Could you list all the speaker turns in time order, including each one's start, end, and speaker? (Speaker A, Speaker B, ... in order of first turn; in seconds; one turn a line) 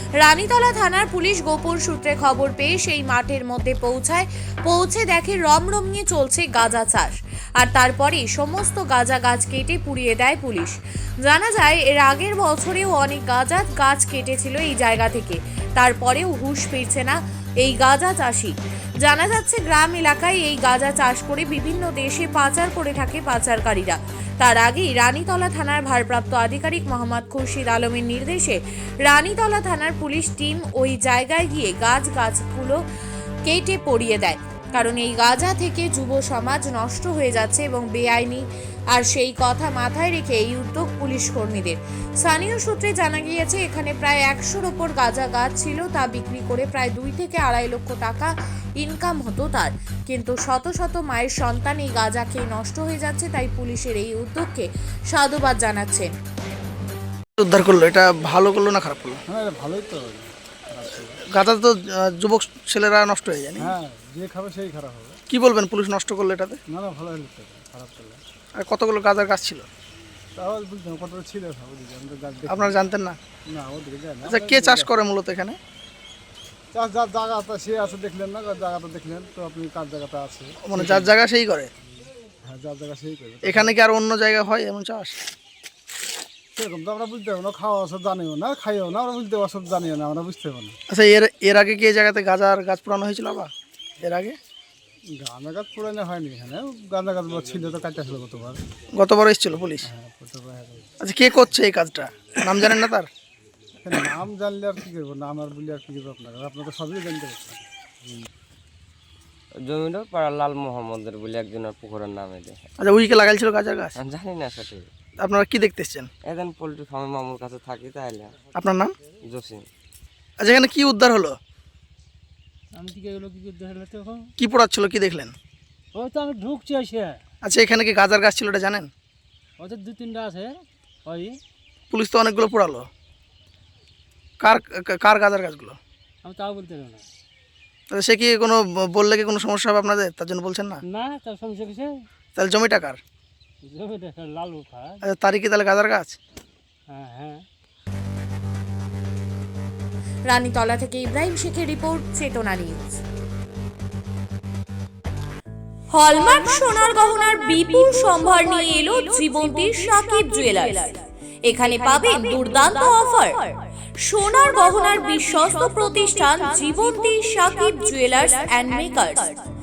Speaker A: 0.2-32.8
Speaker A: 33.5-56.1
Speaker B: 57.4-59.2
Speaker C: 59.3-61.2
Speaker B: 61.2-63.7
Speaker C: 63.6-65.2
Speaker B: 65.3-66.6
Speaker C: 66.7-68.2
Speaker B: 68.6-69.7
Speaker C: 70.3-72.8
Speaker B: 72.5-73.2
Speaker C: 73.5-74.9
Speaker B: 74.2-75.6
Speaker C: 76.7-81.1
Speaker B: 80.7-81.7
Speaker C: 82.5-83.7
Speaker B: 83.4-85.2
Speaker C: 86.5-90.8
Speaker B: 90.9-94.4
Speaker C: 95.1-98.6
Speaker B: 98.9-99.9
Speaker C: 99.8-100.9
Speaker B: 101.0-103.1
Speaker C: 103.8-107.6
Speaker D: 109.6-112.6
Speaker B: 112.8-114.0
Speaker D: 114.0-114.8
Speaker B: 115.2-116.1
Speaker D: 116.2-118.4
Speaker B: 118.5-119.0
Speaker D: 119.3-119.7
Speaker B: 120.4-121.4
Speaker E: 122.8-124.3
Speaker B: 124.4-125.3
Speaker E: 125.9-127.2
Speaker B: 127.4-128.9
Speaker E: 129.6-131.4
Speaker B: 131.9-132.9
Speaker B: 134.4-135.8
Speaker E: 136.2-137.0
Speaker B: 137.9-140.8
Speaker E: 140.9-142.0
Speaker B: 142.3-143.0
Speaker E: 143.6-145.0
Speaker B: 145.1-146.2
Speaker E: 146.9-147.4
Speaker A: 150.3-153.0
Speaker A: 155.9-163.4
Speaker A: 164.0-169.4